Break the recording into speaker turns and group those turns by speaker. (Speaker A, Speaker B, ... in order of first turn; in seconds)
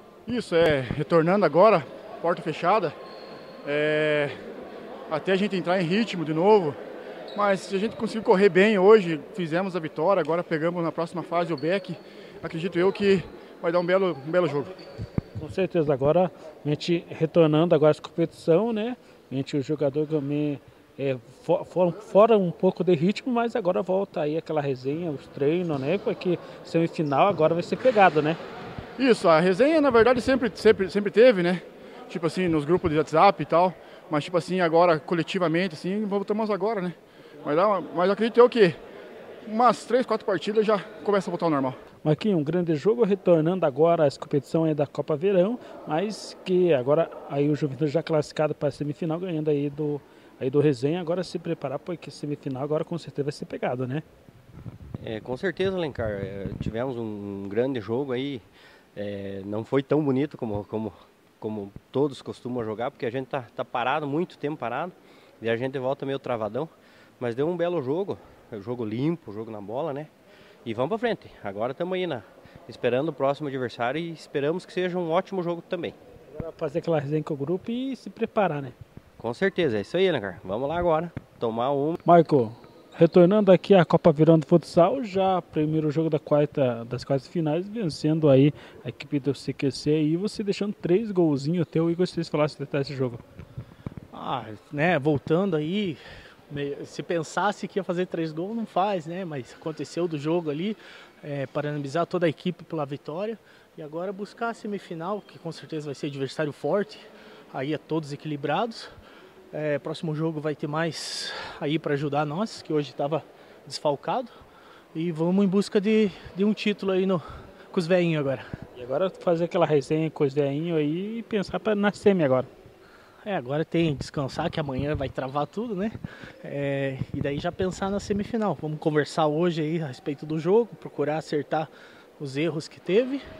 Speaker A: 0.3-2.9, 3.6-4.3, 5.1-6.8, 7.3-14.7, 29.0-38.8, 39.5-41.7
Speaker B: 15.4-28.4, 42.0-54.0, 76.3-78.7, 82.0-93.2, 118.8-122.5
Speaker C: 55.0-58.4, 59.0-70.1, 70.6-75.9, 79.2-82.0
Speaker D: 94.1-108.9, 109.5-114.3, 114.9-118.4, 123.2-133.2